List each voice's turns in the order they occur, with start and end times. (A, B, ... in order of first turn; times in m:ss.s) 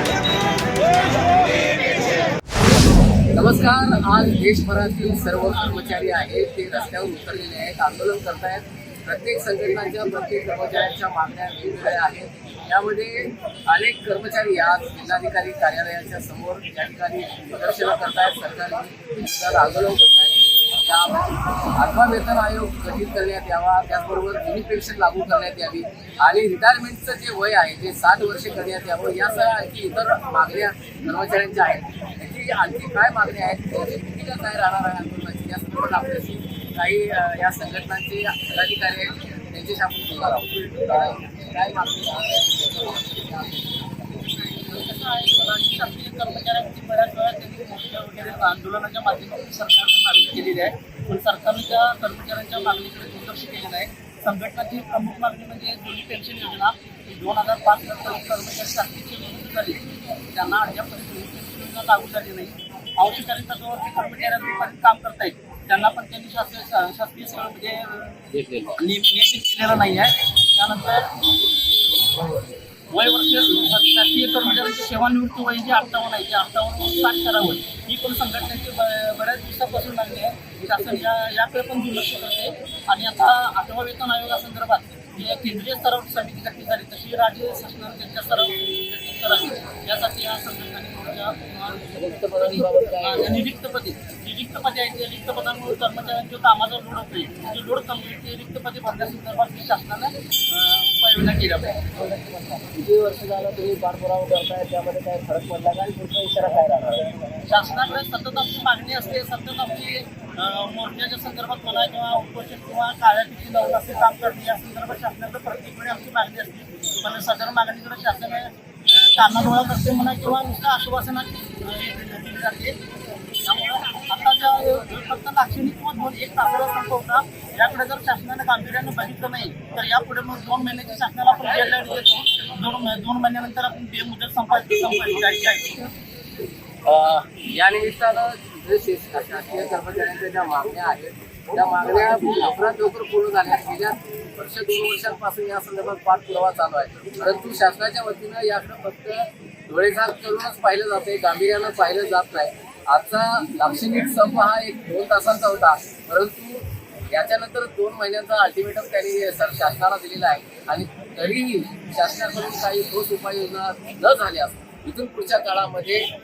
0:03.3-0:43.9 A
0:05.5-0:06.3 B
0:44.3-1:08.2 B
1:08.3-1:08.8 A
1:08.8-1:11.3 B
1:12.2-1:42.4 B
1:31.9-1:33.4 A
1:42.3-1:47.2 A
1:47.4-2:02.8 B
2:03.4-2:15.9 B
2:16.8-2:46.0 A